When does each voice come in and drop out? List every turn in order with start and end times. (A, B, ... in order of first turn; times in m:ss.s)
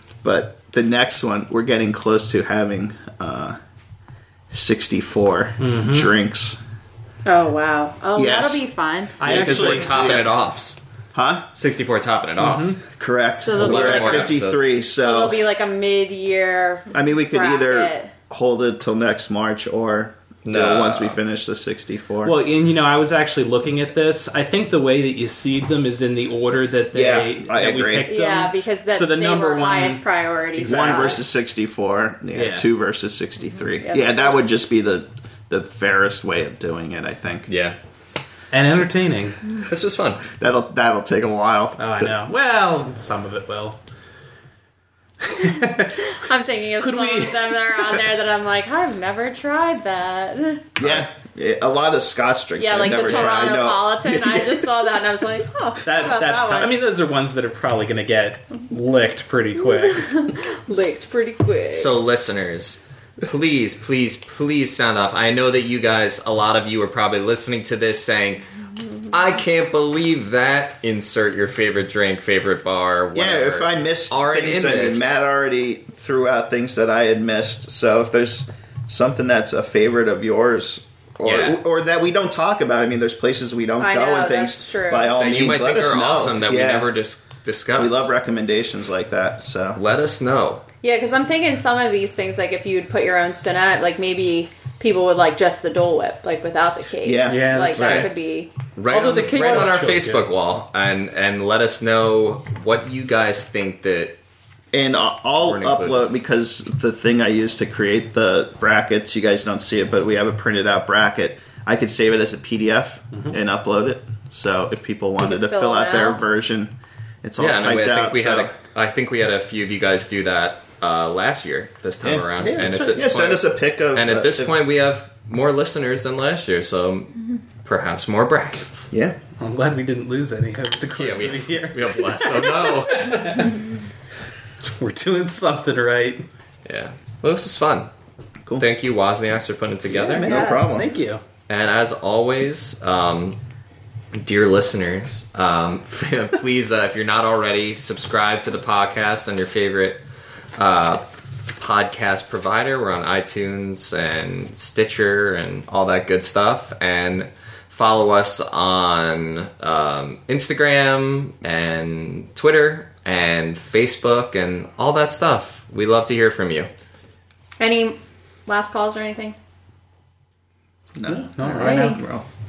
0:00.2-0:03.6 A
0:04.5-0:06.6 A
0:05.6-0:06.1 B
0:07.2-0:09.2 C
0:08.2-0:08.6 A
0:09.2-0:10.1 B
0:09.2-0:10.3 A
0:09.2-0:10.8 D
0:11.1-0:11.5 A
0:11.5-0:12.8 D
0:12.4-0:12.8 B
0:12.9-0:15.4 A
0:13.4-0:14.4 C
0:13.5-0:14.7 D
0:15.0-0:18.1 C
0:16.9-0:22.4 A
0:20.4-0:21.2 D
0:22.2-0:30.0 B
0:26.9-0:28.1 A
0:28.1-0:31.2 C
0:30.5-0:31.2 B
0:30.6-0:37.5 A
0:32.3-0:32.6 B
0:33.8-0:34.5 C
0:37.5-0:37.8 D
0:38.5-0:39.4 B
0:39.6-0:40.2 D
0:40.2-0:42.1 A
0:41.8-0:43.8 B
0:45.2-0:46.1 B
0:46.0-0:50.7 C
0:46.8-0:48.0 B
0:50.8-0:54.7 A
0:52.6-0:56.8 C
0:55.8-1:00.2 B
0:59.7-1:01.9 C
1:01.7-1:08.5 D
1:09.1-1:15.1 D
1:13.1-1:26.9 A
1:21.2-1:21.6 D
1:23.8-1:25.2 C
1:25.2-1:28.1 D
1:27.8-1:29.8 A
1:29.8-1:30.6 D
1:30.8-1:38.5 C
1:37.0-1:37.7 A
1:37.2-1:38.1 B
1:37.7-1:38.1 D
1:38.8-1:44.2 D
1:38.9-1:40.2 B
1:44.7-1:58.5 A
1:45.4-1:46.0 D
1:55.2-1:56.2 C
1:57.4-2:08.9 D
2:02.0-2:02.3 A
2:02.4-2:03.1 B
2:02.9-2:04.6 A
2:08.9-2:09.2 A
2:09.4-2:13.5 B
2:10.9-2:13.4 D
2:14.7-2:16.2 B
2:16.6-2:17.9 D
2:18.6-2:20.4 D
2:19.9-2:21.2 B
2:20.2-2:20.9 A
2:20.2-2:20.8 C
2:21.5-2:23.4 D
2:24.1-2:30.0 D
2:30.6-2:31.0 D
2:31.6-2:46.7 D
2:47.6-2:49.4 C
2:51.0-2:52.2 A
2:51.1-2:52.0 B
2:51.4-2:52.0 C